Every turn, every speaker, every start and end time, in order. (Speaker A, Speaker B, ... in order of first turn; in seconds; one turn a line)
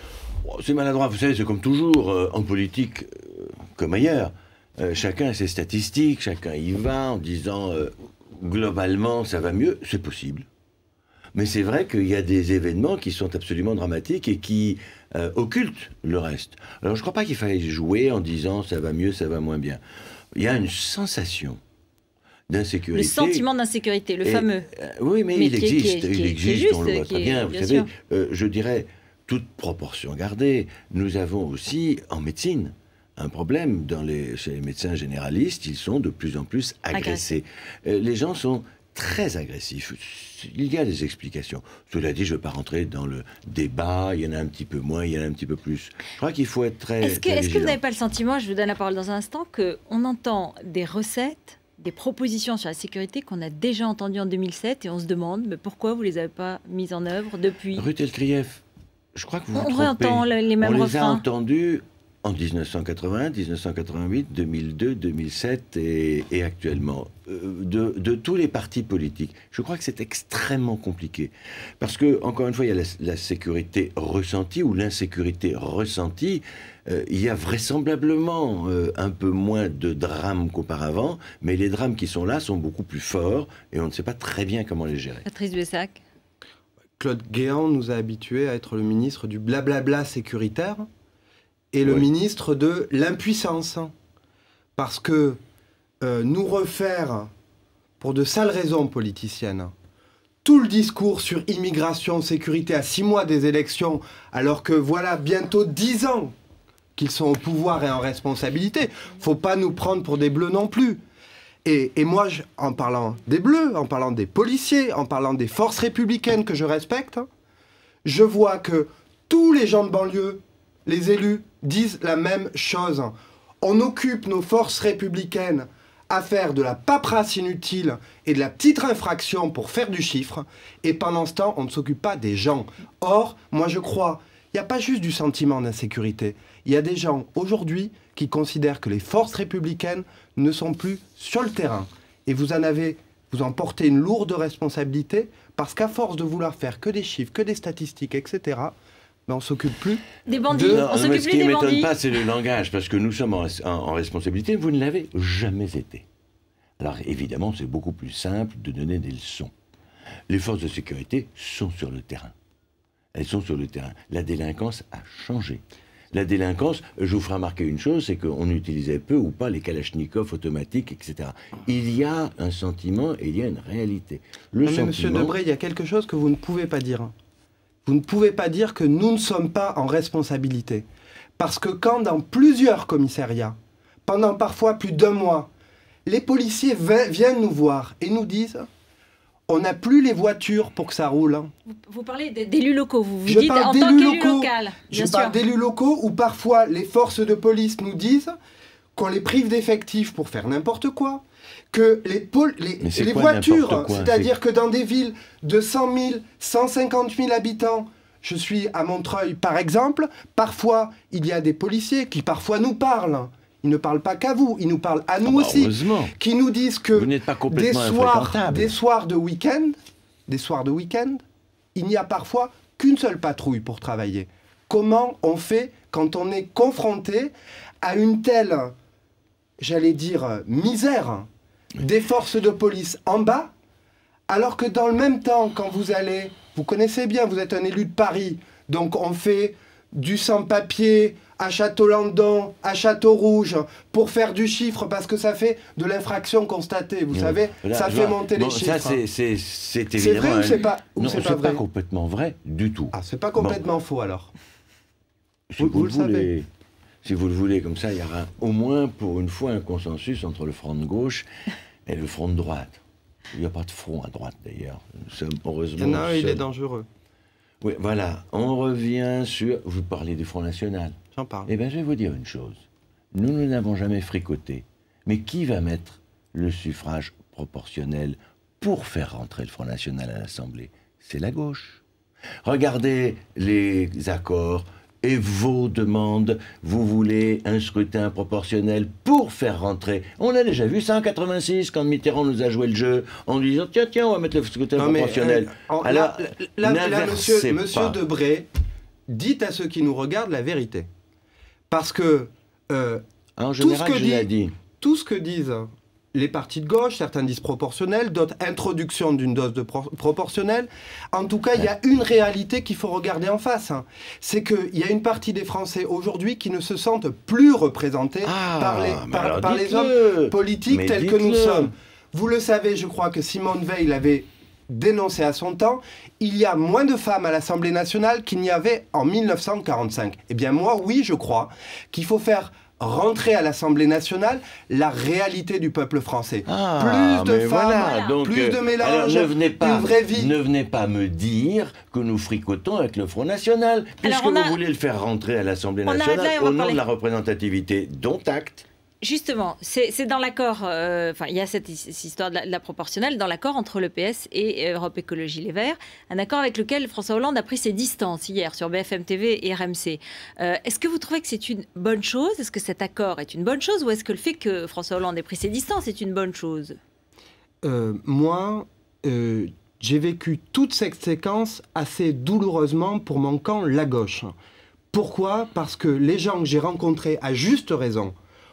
Speaker A: 0.4-10.4
Speaker A: 11.3-19.8
Speaker A: 20.3-21.6
Speaker A: 22.5-23.4
Speaker B: 22.9-24.7
Speaker A: 24.2-47.8
Speaker B: 25.3-27.9
Speaker B: 36.9-37.3
Speaker B: 47.0-57.8
Speaker A: 57.7-58.6
Speaker A: 59.1-85.2
Speaker B: 59.5-61.2
Speaker B: 85.2-86.0
Speaker C: 87.0-90.8
Speaker C: 91.7-93.9
Speaker C: 94.8-95.4
Speaker C: 96.0-97.3
Speaker C: 98.0-99.7
Speaker C: 100.4-106.3
Speaker C: 107.0-111.0
Speaker C: 111.6-117.2
Speaker C: 118.0-148.7
Speaker C: 149.3-150.8
Speaker B: 150.3-151.9
Speaker A: 150.5-156.0
Speaker A: 156.8-159.5
Speaker A: 160.3-162.3
Speaker A: 163.1-165.6
Speaker A: 166.1-175.3
Speaker C: 174.6-177.1
Speaker C: 177.8-180.8
Speaker C: 181.4-183.5
Speaker C: 184.1-185.5
Speaker C: 186.1-188.7
Speaker C: 189.5-191.5
Speaker B: 191.7-195.4
Speaker C: 193.2-198.3
Speaker C: 198.9-219.7
Speaker A: 202.8-204.3
Speaker A: 215.2-216.1
Speaker A: 216.9-218.7
Speaker C: 220.3-221.2
Speaker C: 221.7-228.7
Speaker C: 229.6-231.3
Speaker C: 231.8-233.5
Speaker C: 234.3-249.0
Speaker A: 247.1-253.6
Speaker C: 249.9-251.6
Speaker C: 252.9-254.3
Speaker A: 255.5-256.5
Speaker C: 255.6-256.3
Speaker A: 257.0-261.2
Speaker A: 261.9-262.8
Speaker A: 263.3-266.4
Speaker C: 265.8-266.9
Speaker A: 267.6-270.9
Speaker C: 271.1-271.5
Speaker A: 271.5-272.6
Speaker A: 273.1-281.8
Speaker A: 282.4-298.0
Speaker C: 294.8-298.5
Speaker C: 299.1-300.9
Speaker C: 301.7-303.0
Speaker A: 303.4-304.5
Speaker C: 303.6-340.4
Speaker A: 318.2-321.7
Speaker A: 336.4-348.6
Speaker B: 337.8-338.2
Speaker B: 344.0-344.6
Speaker B: 345.9-346.8
Speaker B: 349.0-366.8
Speaker C: 367.6-374.3
Speaker C: 374.9-378.1